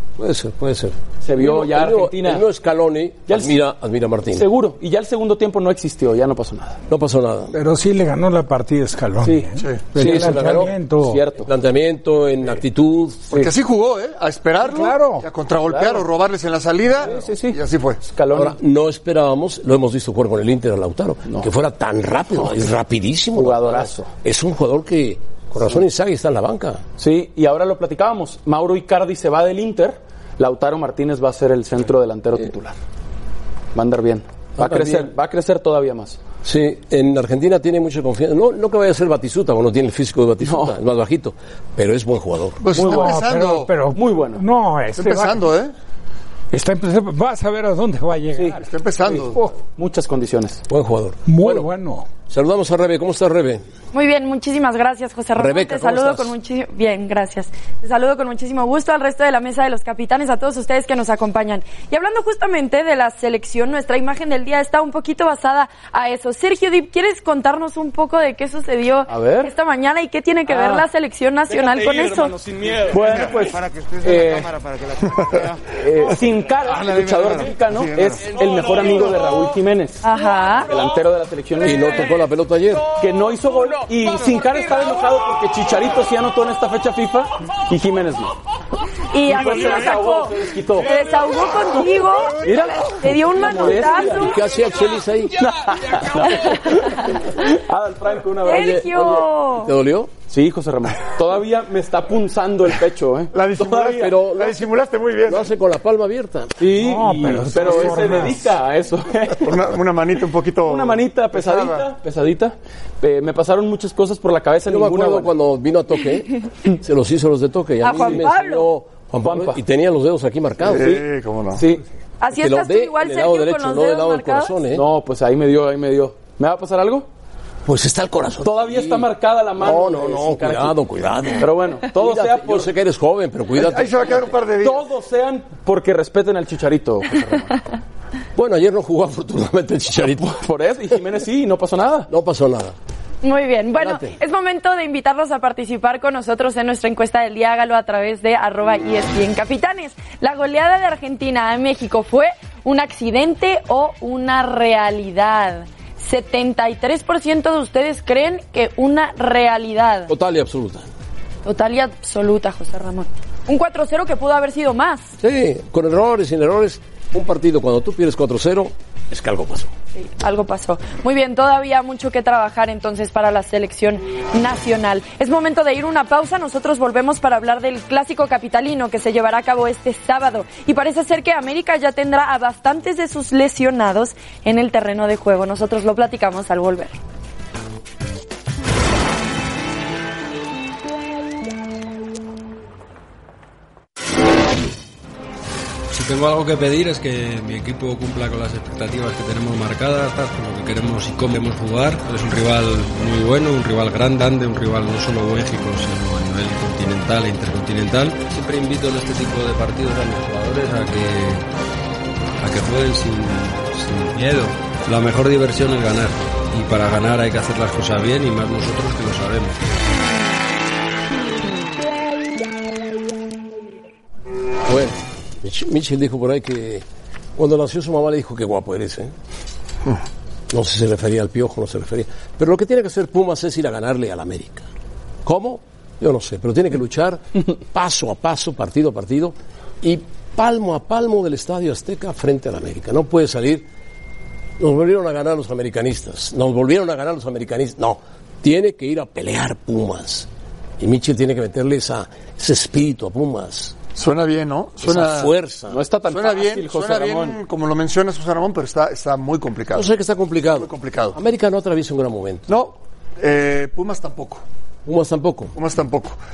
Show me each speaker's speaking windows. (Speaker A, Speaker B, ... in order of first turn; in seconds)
Speaker A: 0.2-4.5, 6.9-7.5, 10.0-10.8, 11.4-13.4, 18.3-26.8, 34.6-35.1, 36.4-42.6, 50.7-51.7, 52.3-53.6, 55.3-56.3, 81.6-82.9, 94.1-95.5, 98.5-100.1, 103.9-104.7, 105.2-106.6, 114.7-121.0, 122.3-124.8, 127.6-134.4, 138.3-140.3, 142.1-142.8, 143.7-144.2, 160.1-160.9, 165.2-169.7, 224.7-226.8, 227.3-229.1, 230.5-234.7, 235.2-243.7, 244.6-253.8, 254.8-255.8, 259.7-262.5, 264.9-265.5
Speaker B: 1.2-2.5, 3.3-3.6, 4.3-6.8, 9.2-11.5, 15.7-16.1, 17.0-17.6, 18.1-18.6, 21.2-21.5, 23.3-24.1, 27.0-32.8, 33.7-36.2, 40.4-40.7, 43.9-44.4, 48.4-50.6, 69.1-69.5, 70.5-70.8, 71.5-74.5, 75.7-80.1, 80.6-82.2, 82.9-88.3, 89.2-91.1, 92.4-94.3, 95.4-98.9, 100.3-104.1, 106.6-109.5, 110.6-115.3, 119.2-119.6, 121.5-121.8, 124.7-127.1, 128.4-130.8, 131.4-132.7, 134.6-137.6, 140.2-142.1, 255.7-257.4
Speaker C: 7.5-11.2, 14.6-15.2, 42.7-45.4, 46.5-48.6, 51.2-52.1, 106.7-108.4
Speaker D: 13.3-18.0, 42.6-43.7, 45.0-45.7, 48.6-49.4, 73.0-73.3, 75.0-78.4, 103.3-105.5, 109.4-111.9, 120.6-121.6, 133.6-134.9, 253.9-255.3, 256.1-259.9, 260.5-261.2, 262.5-264.4, 265.5-266.2
Speaker E: 53.9-72.3, 80.0-80.7, 89.1-94.3, 96.2-97.2, 98.4-99.7, 117.8-118.7, 122.2-124.6, 143.2-160.1, 161.4-165.1, 169.9-186.9
Speaker F: 195.9-211.5, 212.4-219.6